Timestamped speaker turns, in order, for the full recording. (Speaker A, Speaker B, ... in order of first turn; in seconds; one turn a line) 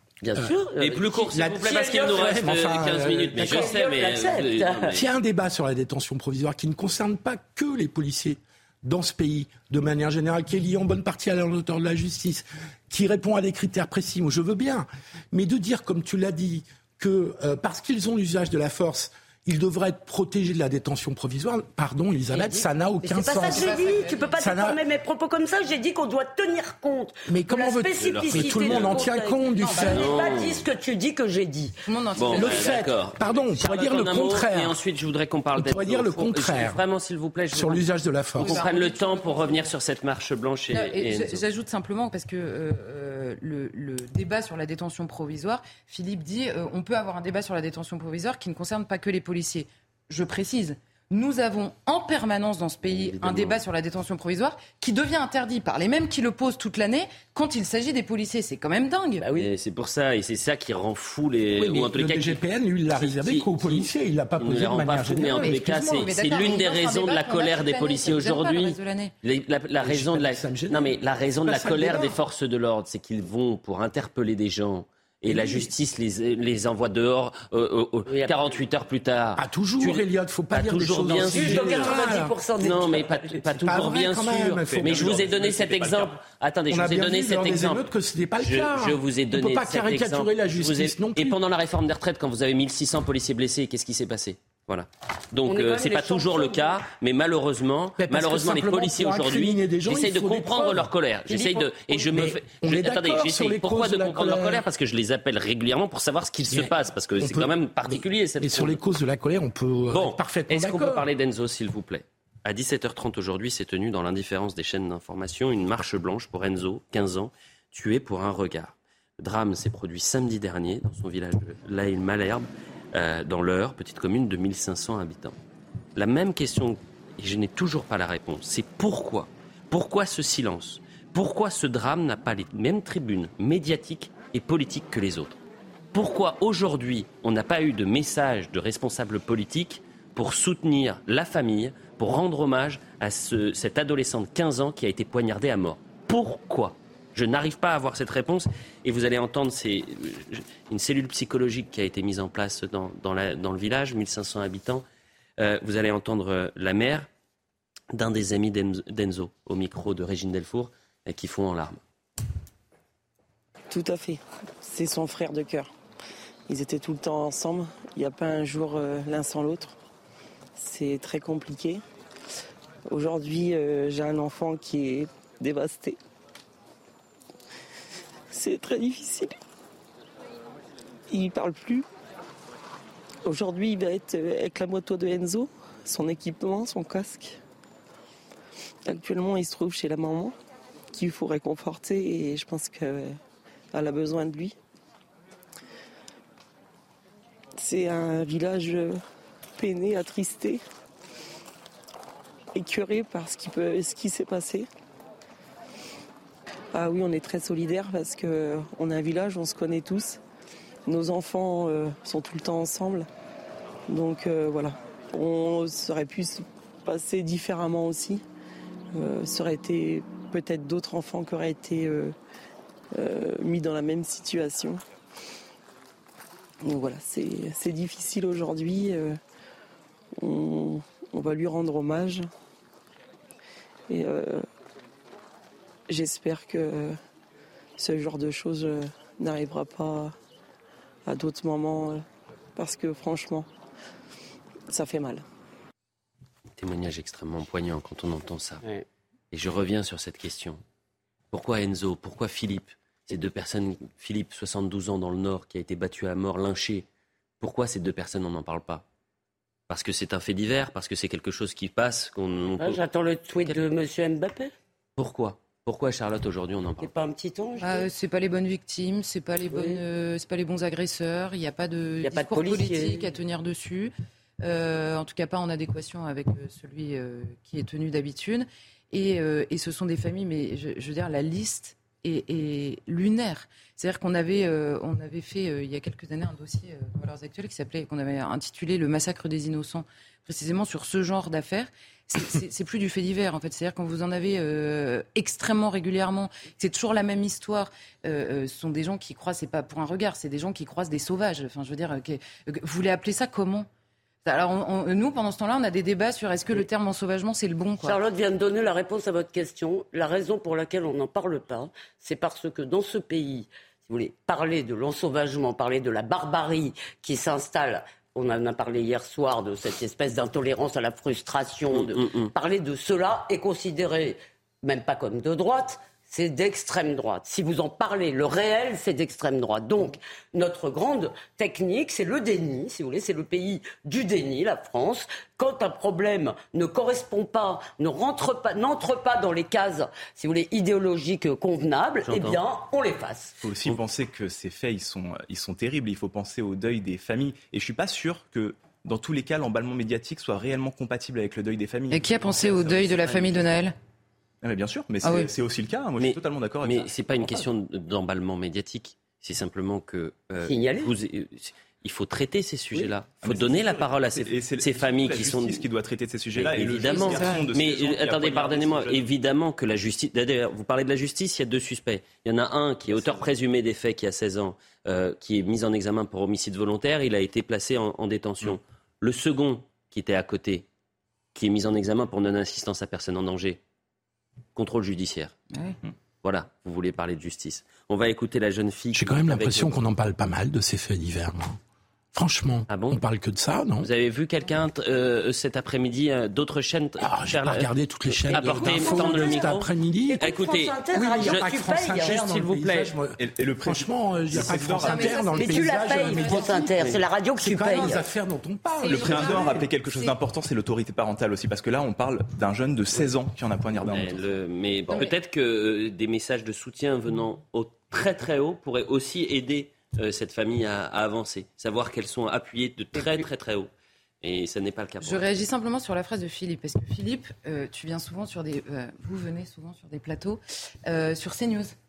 Speaker A: 0.2-2.5
Speaker B: 0.8-5.0
Speaker C: 1.3-3.8
Speaker A: 3.4-5.0
Speaker C: 4.9-23.7
Speaker A: 22.3-31.8
Speaker D: 23.2-24.5
Speaker C: 24.4-24.8
Speaker C: 27.3-30.1
Speaker B: 28.0-29.0
Speaker B: 29.8-30.6
Speaker D: 31.9-32.9
Speaker B: 32.1-37.9
Speaker C: 32.3-34.8
Speaker C: 35.5-36.8
Speaker C: 37.5-38.6
Speaker D: 38.4-39.7
Speaker B: 38.4-41.4
Speaker D: 40.7-59.2
Speaker B: 52.8-53.6
Speaker A: 59.2-59.5
Speaker B: 59.4-62.4
Speaker C: 61.5-65.7
Speaker B: 62.9-82.1
Speaker D: 65.2-69.1
Speaker C: 69.8-72.2
Speaker C: 75.3-75.7
Speaker A: 78.1-78.5
Speaker C: 79.3-82.3
Speaker A: 81.0-83.4
Speaker B: 82.6-87.9
Speaker C: 83.6-85.2
Speaker E: 84.7-86.2
Speaker C: 86.7-91.4
Speaker B: 88.4-108.8
Speaker A: 95.4-96.8
Speaker C: 98.0-100.9
Speaker A: 101.3-102.0
Speaker C: 102.1-104.6
Speaker C: 106.5-111.0
Speaker B: 109.9-125.4
Speaker B: 126.0-135.4
Speaker B: 135.9-154.8
Speaker B: 155.4-157.1
Speaker B: 157.9-161.8
Speaker F: 163.7-165.7
Speaker F: 166.5-169.8
Speaker F: 170.5-171.8
Speaker F: 172.9-176.0
Speaker F: 178.3-179.3
Speaker F: 181.1-181.8
Speaker F: 183.2-187.4
Speaker F: 188.9-190.3
Speaker F: 190.9-193.2
Speaker F: 193.7-194.6
Speaker F: 197.6-199.0
Speaker F: 199.6-200.6
Speaker F: 202.5-204.7
Speaker F: 206.7-210.2
Speaker F: 210.9-213.1
Speaker F: 213.9-218.2
Speaker F: 218.9-222.1
Speaker F: 222.9-224.8
Speaker F: 226.6-229.2
Speaker F: 230.2-232.3
Speaker F: 233.9-234.4
Speaker F: 235.9-237.0
Speaker F: 237.8-240.1
Speaker F: 241.1-242.0
Speaker F: 242.6-243.5
Speaker F: 244.7-245.2
Speaker B: 246.6-248.6
Speaker B: 249.3-250.6
Speaker B: 251.3-256.9
Speaker B: 257.4-258.8
Speaker B: 259.7-262.8
Speaker A: 262.6-264.5
Speaker B: 264.9-266.9
Speaker A: 266.8-267.9
Speaker D: 267.6-303.7
Speaker A: 269.5-269.8
Speaker A: 272.0-273.1
Speaker D: 304.2-308.0
Speaker A: 307.8-343.4
Speaker B: 321.7-322.3
Speaker B: 342.1-342.4
Speaker E: 343.4-353.1
Speaker D: 351.9-353.7
Speaker E: 354.4-356.9
Speaker D: 355.0-355.3
Speaker B: 356.0-365.6
Speaker A: 360.4-360.9
Speaker E: 363.2-369.0
Speaker B: 366.3-380.6
Speaker D: 366.9-367.4
Speaker B: 381.3-383.6
Speaker B: 384.5-385.3
Speaker D: 385.5-385.8
Speaker B: 386.2-389.8
Speaker C: 388.9-391.6
Speaker C: 392.1-393.9
Speaker B: 392.7-393.0
Speaker B: 393.8-397.7
Speaker C: 397.0-400.2
Speaker B: 398.2-402.9
Speaker A: 398.3-399.4
Speaker D: 398.6-399.4
Speaker A: 400.1-402.2
Speaker C: 400.9-409.6
Speaker E: 403.2-405.2
Speaker D: 404.5-406.7
Speaker A: 405.3-408.0
Speaker D: 408.7-410.1
Speaker E: 408.8-414.2
Speaker B: 413.7-423.7
Speaker D: 414.9-415.1
Speaker A: 422.9-423.3
Speaker B: 424.2-425.2
Speaker D: 425.0-431.7